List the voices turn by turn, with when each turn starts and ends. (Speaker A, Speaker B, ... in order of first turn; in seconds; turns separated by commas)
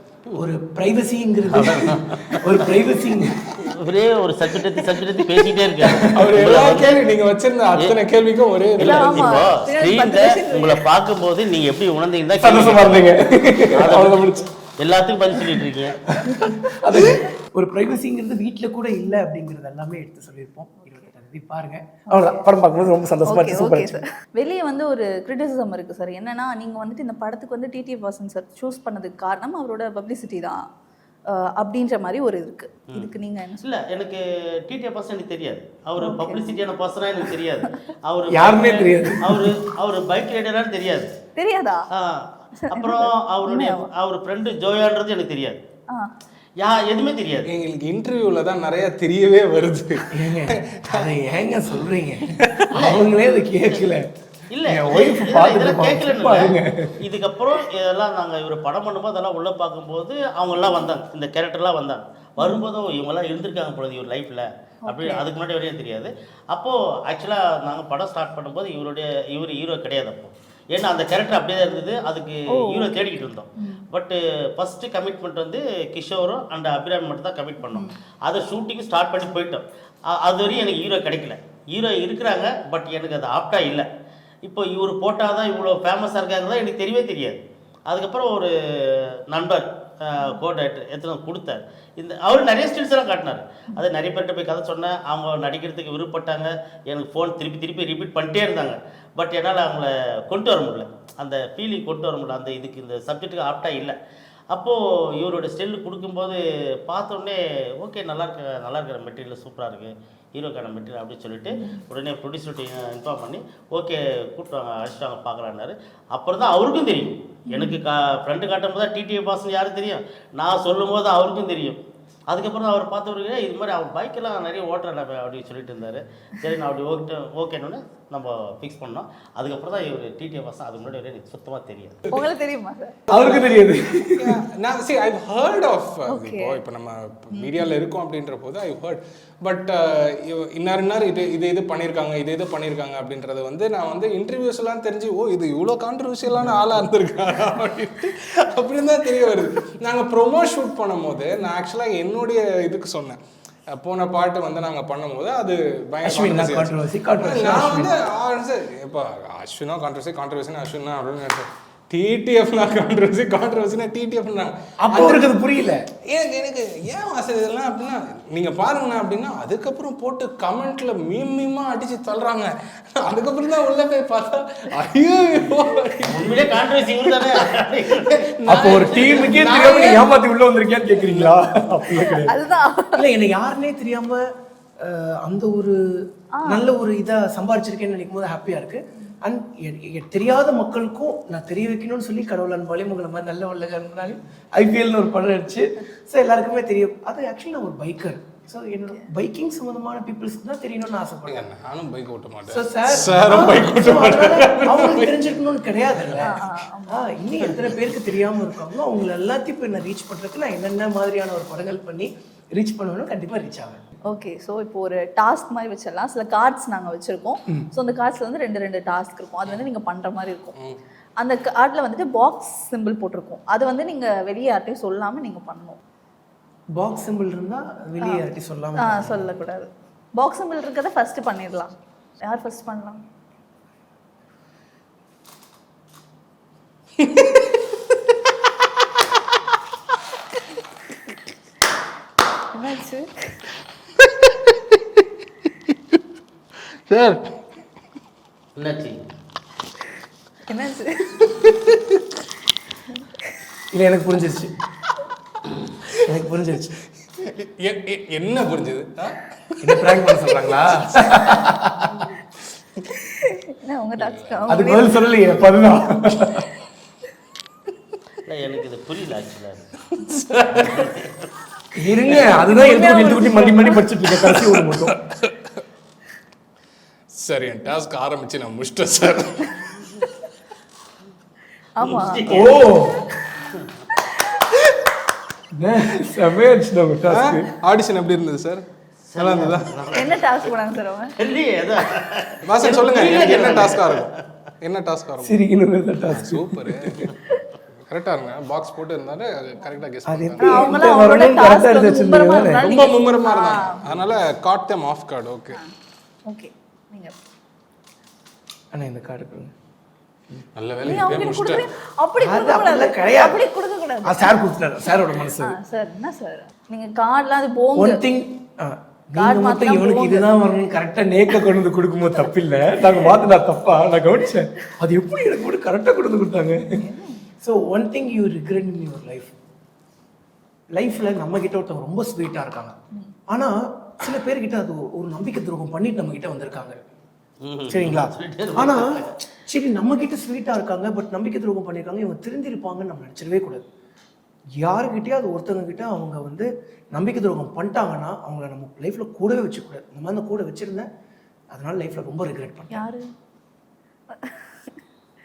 Speaker A: 0.3-3.5, Speaker B: 1.5-2.5, Speaker B: 3.6-7.0, Speaker C: 6.0-9.4, Speaker B: 8.8-13.2, Speaker D: 8.8-10.9, Speaker A: 12.4-14.4, Speaker B: 13.7-16.0, Speaker A: 16.1-24.0, Speaker D: 20.8-21.1, Speaker D: 22.1-22.4, Speaker D: 23.2-30.6, Speaker D: 31.3-33.6, Speaker B: 32.9-41.1, Speaker D: 36.0-36.6, Speaker A: 38.3-39.5, Speaker D: 41.4-41.8, Speaker B: 41.9-45.6, Speaker D: 42.7-43.9, Speaker B: 46.6-47.5, Speaker C: 47.4-51.1, Speaker A: 50.1-54.0, Speaker C: 52.4-52.7, Speaker B: 52.7-53.1, Speaker B: 54.5-83.9, Speaker A: 54.6-57.0, Speaker D: 62.4-62.6, Speaker D: 64.8-65.3, Speaker D: 72.5-73.8, Speaker D: 77.6-77.9, Speaker B: 84.4-104.0, Speaker B: 104.5-132.1, Speaker D: 117.5-117.8, Speaker D: 132.1-133.0, Speaker A: 133.1-134.3, Speaker C: 134.1-153.2, Speaker D: 136.1-136.6, Speaker D: 137.3-137.7, Speaker C: 153.7-165.3, Speaker A: 156.0-157.9, Speaker A: 164.8-165.8, Speaker C: 166.1-176.6, Speaker B: 176.0-179.9, Speaker C: 178.3-180.0, Speaker A: 178.5-182.3, Speaker D: 181.9-183.0, Speaker A: 182.9-184.2, Speaker A: 184.8-185.8, Speaker A: 186.5-201.5, Speaker C: 201.3-205.3, Speaker A: 202.5-213.8, Speaker C: 205.9-206.4, Speaker D: 206.2-207.1, Speaker D: 214.1-220.5, Speaker C: 220.5-220.8, Speaker D: 221.2-225.8, Speaker A: 226.8-229.3, Speaker D: 228.0-228.2, Speaker D: 228.8-233.0, Speaker C: 237.0-237.5, Speaker D: 242.5-243.4, Speaker C: 246.9-247.2, Speaker B: 248.6-249.0, Speaker D: 250.5-251.4, Speaker D: 252.9-253.4, Speaker A: 253.7-254.5, Speaker A: 255.9-256.8, Speaker C: 257.2-261.2, Speaker A: 259.6-262.1, Speaker D: 262.9-265.1, Speaker C: 264.0-264.6, Speaker A: 264.5-266.5, Speaker B: 268.2-269.7, Speaker C: 270.0-270.9, Speaker B: 270.5-271.1, Speaker A: 271.7-275.0, Speaker D: 272.3-274.1, Speaker C: 274.1-275.6, Speaker C: 277.1-280.0, Speaker D: 281.8-282.4, Speaker B: 281.9-282.6, Speaker A: 282.2-283.2, Speaker D: 284.0-284.5, Speaker A: 285.6-287.5, Speaker C: 287.1-288.6, Speaker B: 289.1-290.5, Speaker C: 289.2-289.7, Speaker D: 289.9-291.1, Speaker B: 291.2-294.1, Speaker C: 292.4-295.4, Speaker A: 295.2-297.1, Speaker C: 296.1-297.1, Speaker C: 297.9-300.6, Speaker A: 300.1-302.7, Speaker D: 300.4-303.8, Speaker C: 302.6-305.6, Speaker D: 306.3-307.1, Speaker A: 308.7-309.5, Speaker C: 310.6-311.6, Speaker D: 310.8-314.5, Speaker A: 312.2-313.4, Speaker A: 314.0-315.6, Speaker D: 315.1-318.0, Speaker A: 317.8-326.6, Speaker D: 319.2-320.4, Speaker D: 322.9-323.2, Speaker D: 326.7-327.2, Speaker A: 327.4-329.3, Speaker A: 330.8-332.7, Speaker A: 333.3-336.8, Speaker B: 337.4-339.1, Speaker A: 337.7-338.9, Speaker A: 339.4-343.6, Speaker A: 344.6-350.9, Speaker A: 351.5-352.9, Speaker D: 352.7-353.1, Speaker D: 354.1-354.8